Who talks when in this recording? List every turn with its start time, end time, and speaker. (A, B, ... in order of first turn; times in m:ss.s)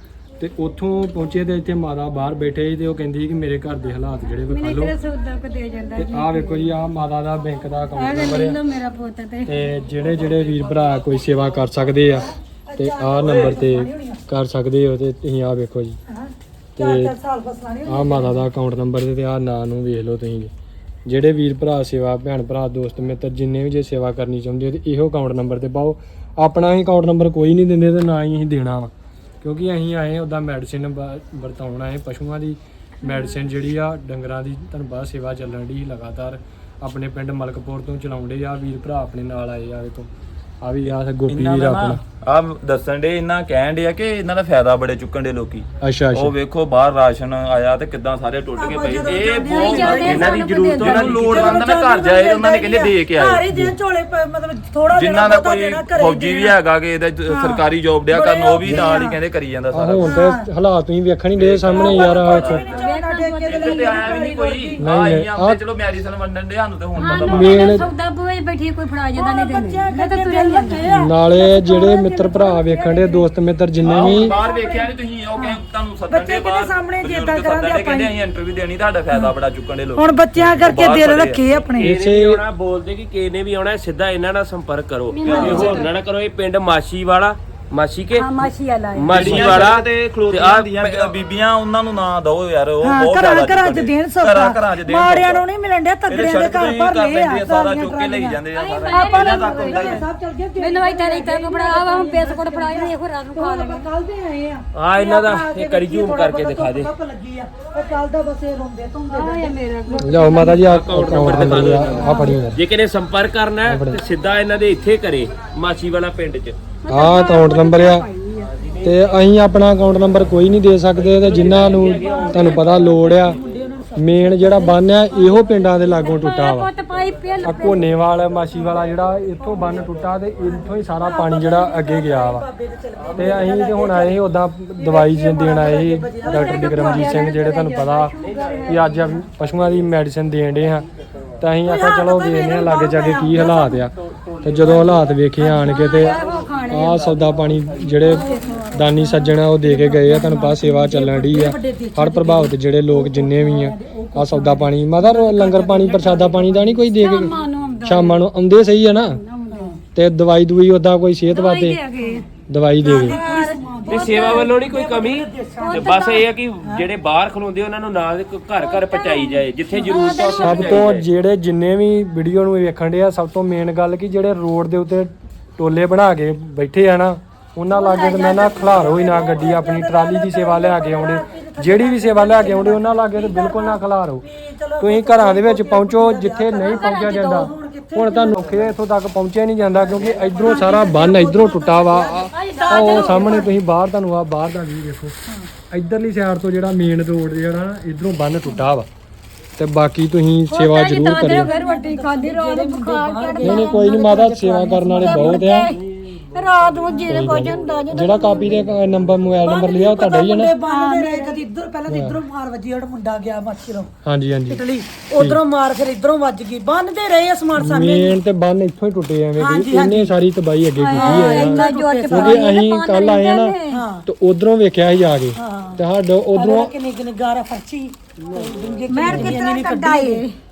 0:00.4-0:04.9 A
0:04.5-0:06.7 B
0:06.0-0:08.6 A
0:07.9-0:09.5 B
0:09.4-0:16.0 A
0:12.2-0:14.2 C
0:13.2-0:13.6 D
0:16.1-0:18.4 C
0:16.8-0:17.1 A
0:17.8-0:20.5 A
0:21.0-0:40.1 A
0:33.0-0:33.4 B
0:40.6-0:42.0 A
0:40.9-0:53.4 D
0:45.8-0:46.3 A
0:48.5-0:50.3 C
0:49.4-0:51.6 B
0:49.9-0:51.5 E
0:51.2-0:56.6 C
0:53.5-0:53.8 A
0:54.9-1:00.2 D
0:57.3-0:59.2 C
0:59.7-1:02.6 A
1:00.0-1:00.4 C
1:01.4-1:02.6 D
1:01.7-1:04.8 C
1:02.7-1:04.1 B
1:03.5-1:07.8 D
1:04.8-1:05.6 A
1:07.0-1:10.9 B
1:07.1-1:07.9 A
1:09.1-1:13.2 C
1:10.9-1:14.3 A
1:13.8-1:21.4 D
1:13.9-1:18.1 C
1:19.9-1:21.9 C
1:20.4-1:20.8 A
1:21.5-1:28.5 E
1:21.8-1:22.4 A
1:25.1-1:25.9 B
1:25.2-1:25.8 D
1:25.3-1:25.7 C
1:28.1-1:29.5 B
1:29.0-1:31.1 E
1:29.1-1:35.4 D
1:32.8-1:50.5 C
1:36.1-1:40.0 D
1:38.5-1:40.0 B
1:40.6-1:43.9 B
1:44.7-1:46.9 E
1:49.1-1:50.6 B
1:50.0-1:52.6 A
1:50.6-1:56.6 E
1:51.4-1:52.4 B
1:53.6-1:54.0 A
1:56.9-1:58.5 B
1:56.9-1:58.0 A
1:58.4-1:59.2 E
1:58.8-2:03.4 A
2:00.9-2:03.4 E
2:01.6-2:06.3 C
2:04.0-2:06.7 A
2:06.0-2:07.9 B
2:07.4-2:12.4 A
2:07.6-2:08.0 C
2:08.6-2:08.8 C
2:09.4-2:14.2 C
2:13.0-2:13.5 E
2:13.1-2:18.1 A
2:14.8-2:17.4 C
2:16.2-2:19.2 B
2:18.2-2:18.9 E
2:18.7-2:20.9 A
2:21.4-2:26.2 A
2:21.6-2:23.9 C
2:24.8-2:26.1 C
2:25.4-2:27.3 B
2:26.0-2:27.2 D
2:26.7-2:39.2 A
2:27.9-2:36.9 C
2:28.0-2:28.6 B
2:37.0-2:38.2 B
2:39.0-2:39.8 B
2:39.9-2:41.8 A
2:41.3-2:42.2 B
2:42.5-2:43.2 A
2:42.8-2:46.1 C
2:42.8-2:44.5 B
2:43.8-2:51.0 E
2:45.6-2:46.3 B
2:46.6-2:46.9 C
2:48.6-2:50.8 B
2:50.4-3:04.2 A
2:57.7-2:59.0 B
2:58.1-3:08.8 C
3:04.8-3:15.1 A
3:09.7-3:13.5 C
3:10.4-3:10.9 B
3:12.2-3:13.5 B
3:15.7-3:18.9 A
3:19.6-3:21.5 A
3:20.5-3:24.0 B
3:21.2-3:25.6 C
3:23.4-3:25.7 A
3:25.0-3:25.8 B
3:26.3-3:28.6 B
3:26.9-3:28.5 C
3:27.1-3:30.5 A
3:29.4-3:33.9 C
3:30.6-3:31.4 B
3:31.9-3:32.2 A
3:34.0-3:34.6 A
3:34.5-3:38.2 C
3:37.6-3:43.5 A
3:39.4-3:40.2 C
3:40.8-3:43.8 B
3:40.9-3:42.5 C
3:43.7-3:44.0 C
3:44.0-3:46.7 A
3:45.3-3:45.8 C
3:46.3-3:50.2 C
3:48.3-3:48.8 E
3:48.9-3:50.3 B
3:49.0-3:49.4 A